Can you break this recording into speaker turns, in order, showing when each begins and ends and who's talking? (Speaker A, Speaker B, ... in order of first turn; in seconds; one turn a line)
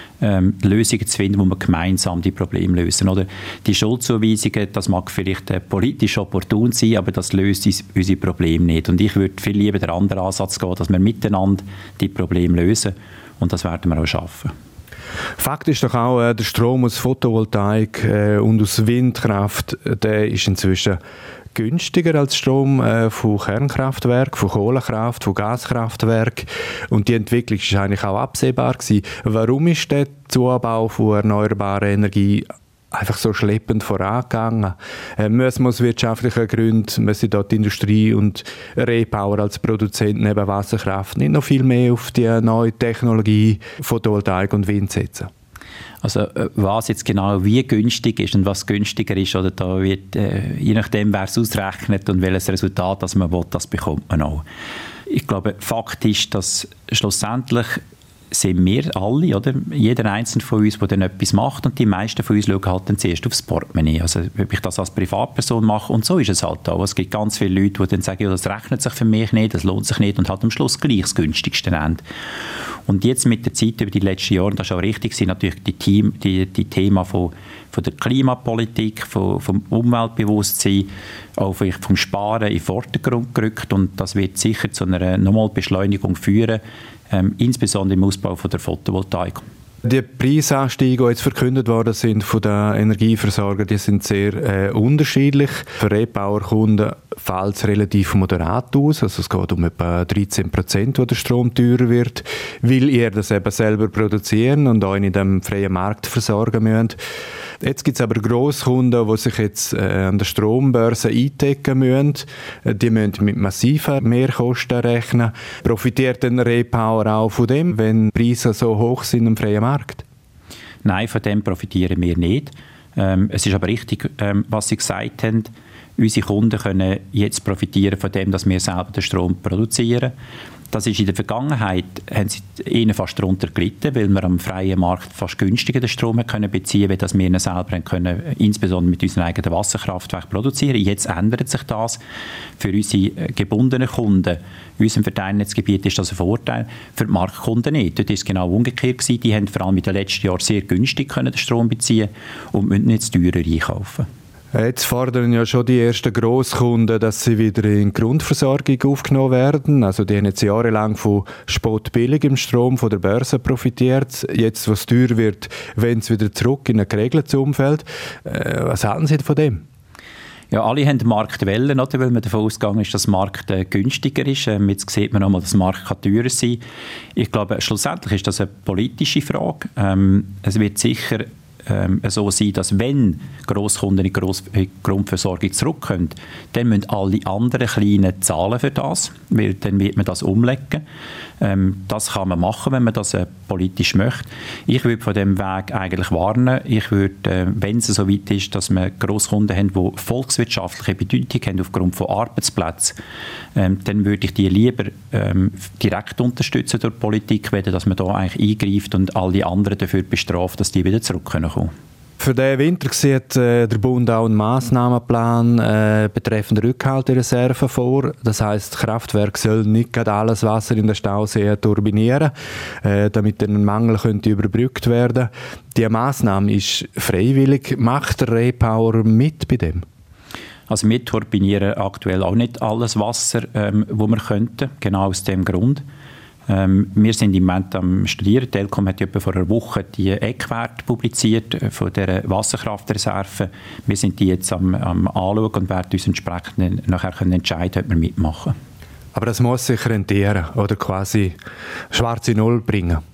Speaker A: 0.2-14.5
Speaker B: 15.4-21.0
Speaker B: 21.5-45.3
Speaker A: 46.0-54.4
Speaker A: 55.1-57.8
Speaker A: 58.3-72.0
Speaker A: 72.9-89.4
Speaker B: 89.8-107.0
Speaker B: 107.6-120.0
Speaker A: 120.8-130.1
Speaker A: 130.7-142.0
Speaker A: 142.6-154.1
Speaker B: 154.5-169.6
Speaker A: 170.5-176.6
Speaker A: 177.2-190.8
Speaker A: 191.4-202.9
Speaker A: 203.6-211.7
Speaker B: 212.2-229.8
Speaker A: 230.7-235.8
Speaker A: 236.5-248.6
Speaker B: 249.1-251.4
Speaker B: 251.9-253.0